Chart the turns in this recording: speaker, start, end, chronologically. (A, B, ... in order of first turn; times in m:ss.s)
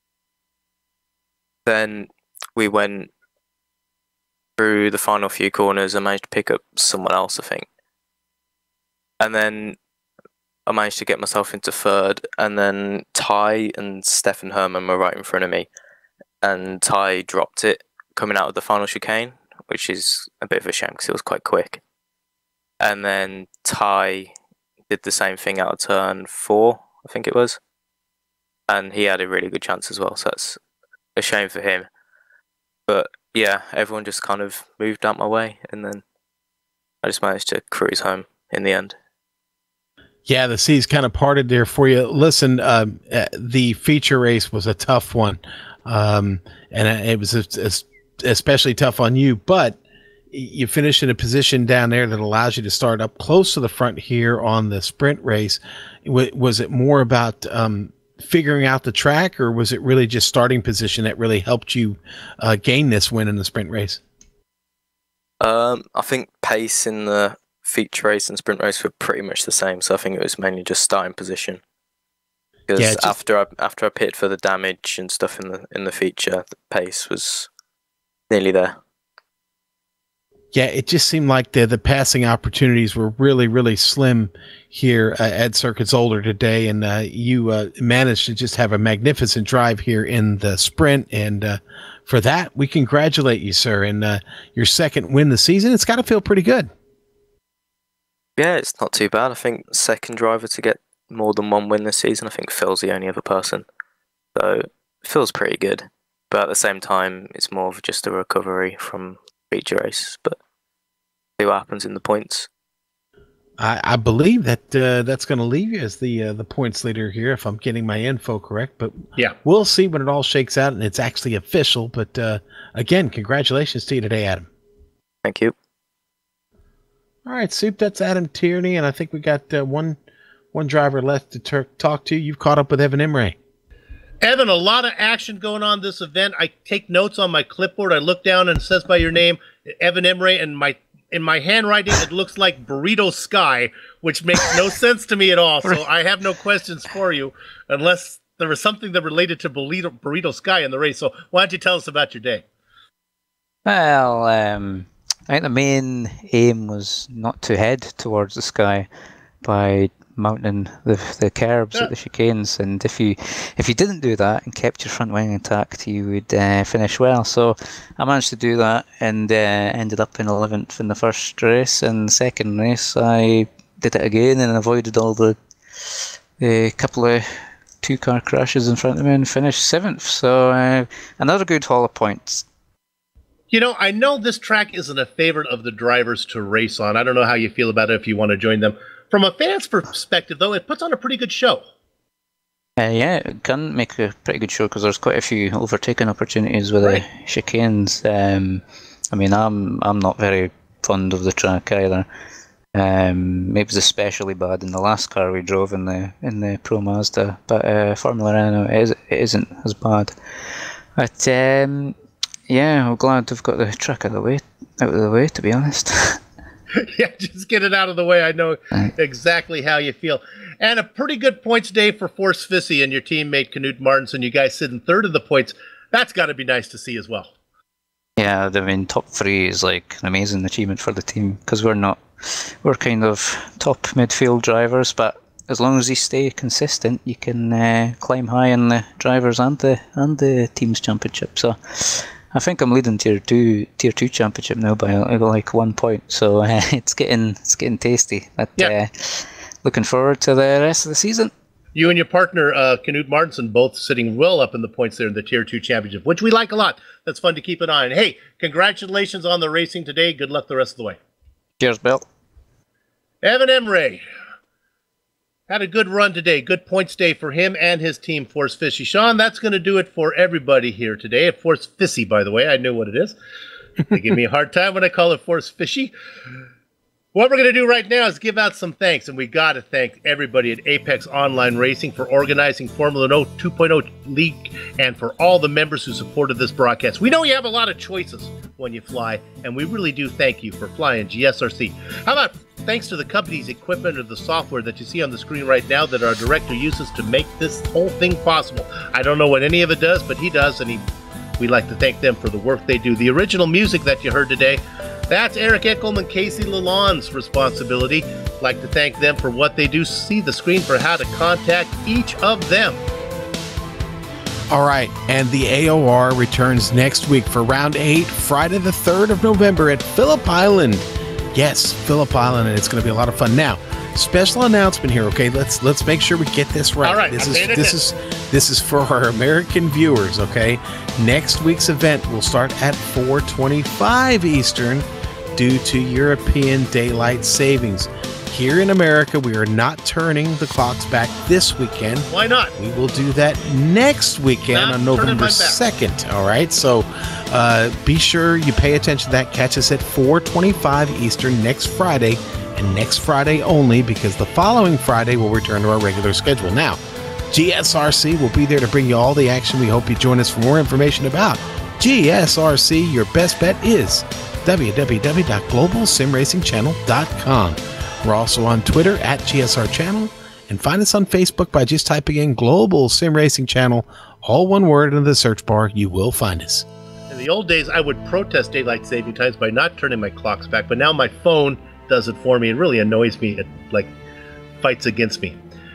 0:01.7-0:03.1 A
0:04.6-0:07.7 A
0:09.2-0:09.8 A
0:10.7-0:15.7 A
0:16.4-0:21.8 A
0:22.8-0:24.3 A
0:24.9-0:27.6 A
0:28.7-0:30.6 A
0:31.2-0:31.9 A
0:32.9-0:36.0 A
0:37.0-0:39.0 A
0:40.3-0:49.8 B
0:50.3-1:04.0 B
1:05.4-1:11.6 A
1:12.7-1:17.5 A
1:12.8-1:13.2 B
1:18.3-1:18.8 A
1:20.5-1:36.7 B
1:38.4-1:43.6 A
1:44.4-1:50.4 A
1:51.4-1:52.5 A
1:53.6-2:04.5 B
2:05.2-2:05.5 A
2:07.3-2:10.0 B
2:10.5-2:13.4 B
2:14.2-2:32.4 C
2:33.7-2:38.9 D
2:39.4-2:57.2 D
2:57.8-3:02.4 D
3:03.5-3:11.6 C
3:12.8-3:22.1 D
3:22.8-3:32.0 D
3:32.5-3:36.2 D
3:36.8-3:47.3 C
3:48.2-4:11.3 D
4:11.8-4:21.0 C
4:21.6-4:22.0 D
4:23.2-4:24.0 C
4:25.5-4:33.2 C
4:33.9-4:35.9 C
4:37.1-5:00.8 C
5:01.4-5:12.8 C
5:14.5-6:16.7 B
5:26.8-5:27.8 C
5:42.1-5:42.6 C
5:44.5-5:45.6 C
6:17.1-6:23.9 C
6:24.6-6:25.4 C